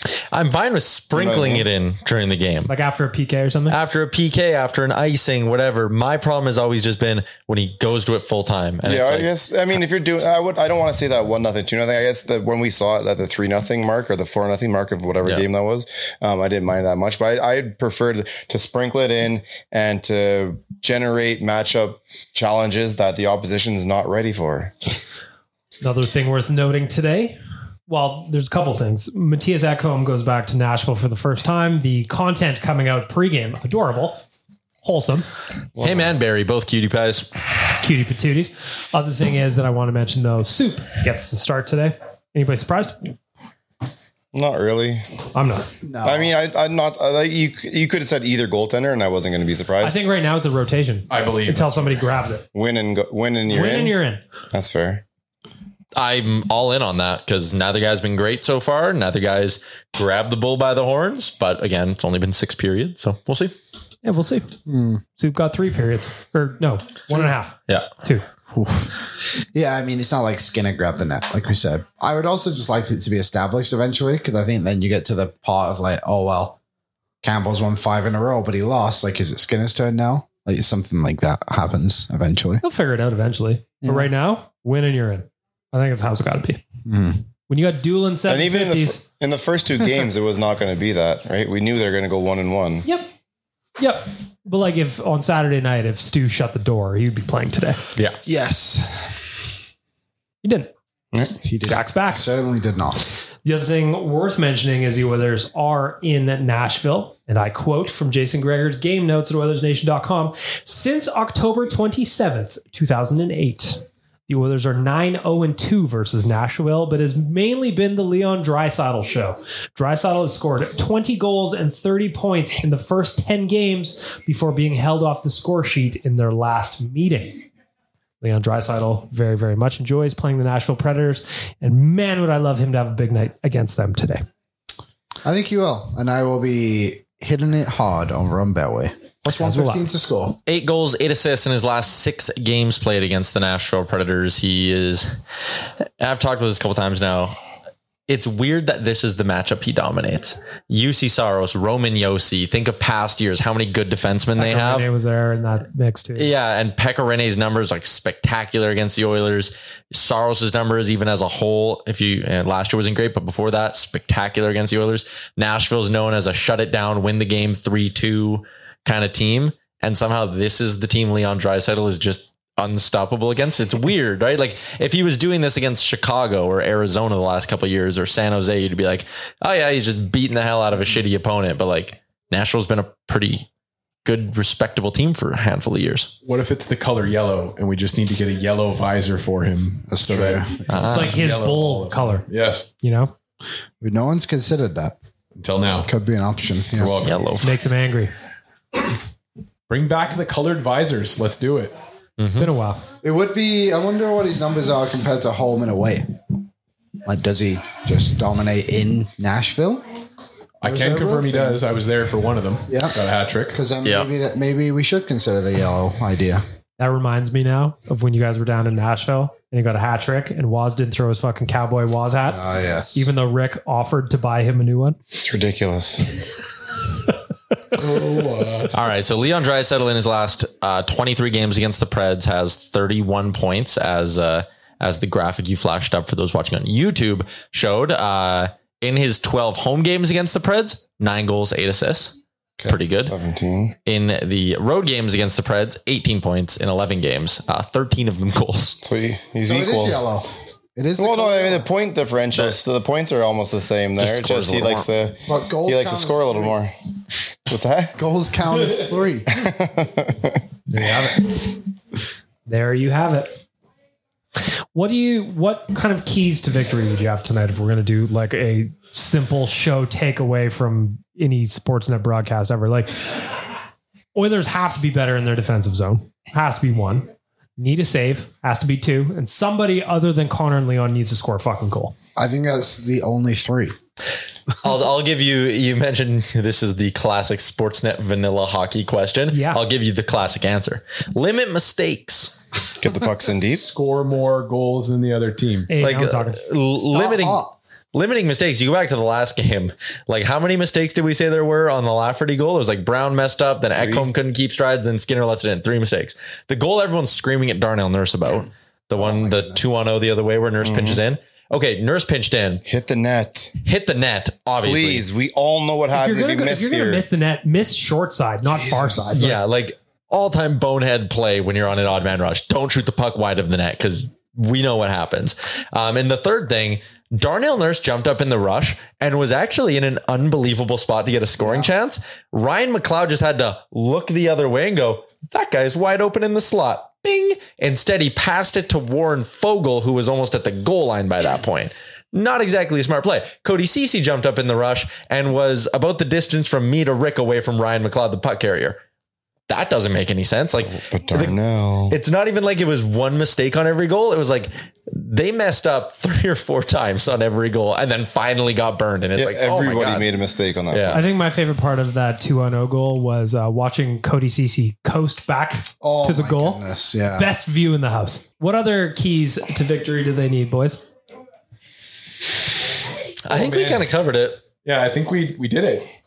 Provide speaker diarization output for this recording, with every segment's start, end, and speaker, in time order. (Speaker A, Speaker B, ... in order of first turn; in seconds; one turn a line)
Speaker A: 0.3-2.7
Speaker B: 1.1-1.7
Speaker C: 2.7-3.8
Speaker A: 3.7-9.3
Speaker B: 8.8-24.7
Speaker C: 25.8-27.4
Speaker C: 27.9-34.2
Speaker C: 34.8-35.3
Speaker B: 35.8-36.2
Speaker A: 35.8-37.4
Speaker C: 37.8-43.0
Speaker B: 44.3-45.0
Speaker C: 45.3-45.7
Speaker D: 45.8-46.3
Speaker B: 46.0-50.0
Speaker C: 49.8-52.4
Speaker E: 51.1-52.2
Speaker B: 52.5-54.0
Speaker C: 53.5-54.2
Speaker B: 54.5-55.0
Speaker A: 56.0-63.5
Speaker C: 64.0-64.5
Speaker D: 64.7-65.0
Speaker C: 65.2-68.2
Speaker D: 68.5-76.6
Speaker D: 77.2-82.6
Speaker C: 82.6-86.6
Speaker D: 83.8-84.1
Speaker D: 86.8-87.2
Speaker C: 87.5-89.0
Speaker B: 88.3-92.8
Speaker C: 93.8-97.8
Speaker D: 98.2-99.3
Speaker C: 100.4-100.7
Speaker D: 101.2-103.2
Speaker C: 101.7-102.2
Speaker C: 103.4-127.4
Speaker C: 128.2-134.2
Speaker D: 135.2-140.4
Speaker C: 139.3-139.9
Speaker A: 140.5-145.2
Speaker A: 146.0-147.3
Speaker A: 148.1-154.9
Speaker C: 154.4-156.3
Speaker A: 156.2-183.4
Speaker A: 184.0-186.1
Speaker E: 186.2-192.7
Speaker D: 189.9-191.1
Speaker A: 190.7-191.1
Speaker C: 190.8-192.2
Speaker C: 192.8-193.1
Speaker D: 193.8-195.0
Speaker E: 195.3-195.9
Speaker D: 195.9-197.0
Speaker E: 196.8-197.3
Speaker A: 196.9-197.7
Speaker C: 197.4-198.1
Speaker E: 199.7-201.7
Speaker A: 202.2-202.5
Speaker C: 202.4-202.8
Speaker D: 203.0-206.1
Speaker D: 207.0-209.8
Speaker E: 210.6-213.6
Speaker D: 210.6-211.6
Speaker D: 212.7-213.0
Speaker D: 213.5-216.4
Speaker A: 213.8-214.1
Speaker C: 216.8-222.4
Speaker D: 222.2-223.1
Speaker C: 222.9-225.0
Speaker B: 225.1-226.3
Speaker E: 227.7-228.8
Speaker A: 228.7-243.1
Speaker B: 243.1-243.8
Speaker A: 243.8-248.8
Speaker B: 248.8-250.0
Speaker D: 249.4-251.7
Speaker B: 251.0-256.7
Speaker A: 252.3-252.6
Speaker A: 254.0-254.9
Speaker D: 255.3-256.6
Speaker B: 257.5-257.9
Speaker D: 257.9-259.2
Speaker B: 259.3-260.4
Speaker E: 260.7-261.2
Speaker C: 262.5-263.4
Speaker C: 264.7-273.2
Speaker C: 274.1-281.9
Speaker D: 282.1-283.7
Speaker A: 284.6-292.4
Speaker C: 289.3-289.6
Speaker B: 292.8-293.7
Speaker E: 293.5-295.7
Speaker C: 295.7-296.4
Speaker A: 295.8-297.4
Speaker D: 296.8-297.6
Speaker A: 297.9-312.6
Speaker B: 303.8-304.1
Speaker D: 308.9-309.6
Speaker B: 310.6-311.0
Speaker B: 312.6-313.5
Speaker A: 313.6-315.0
Speaker B: 314.6-317.0
Speaker C: 315.9-319.2
Speaker D: 318.5-319.4
Speaker A: 319.1-348.8
Speaker D: 331.4-331.7
Speaker A: 349.5-351.4
Speaker B: 350.7-352.0
Speaker A: 351.9-360.1
Speaker B: 359.1-361.1
Speaker A: 360.7-361.0
Speaker C: 360.9-366.6
Speaker D: 365.8-367.3
Speaker C: 367.1-370.9
Speaker A: 373.2-374.4
Speaker E: 373.3-373.9
Speaker E: 374.6-375.9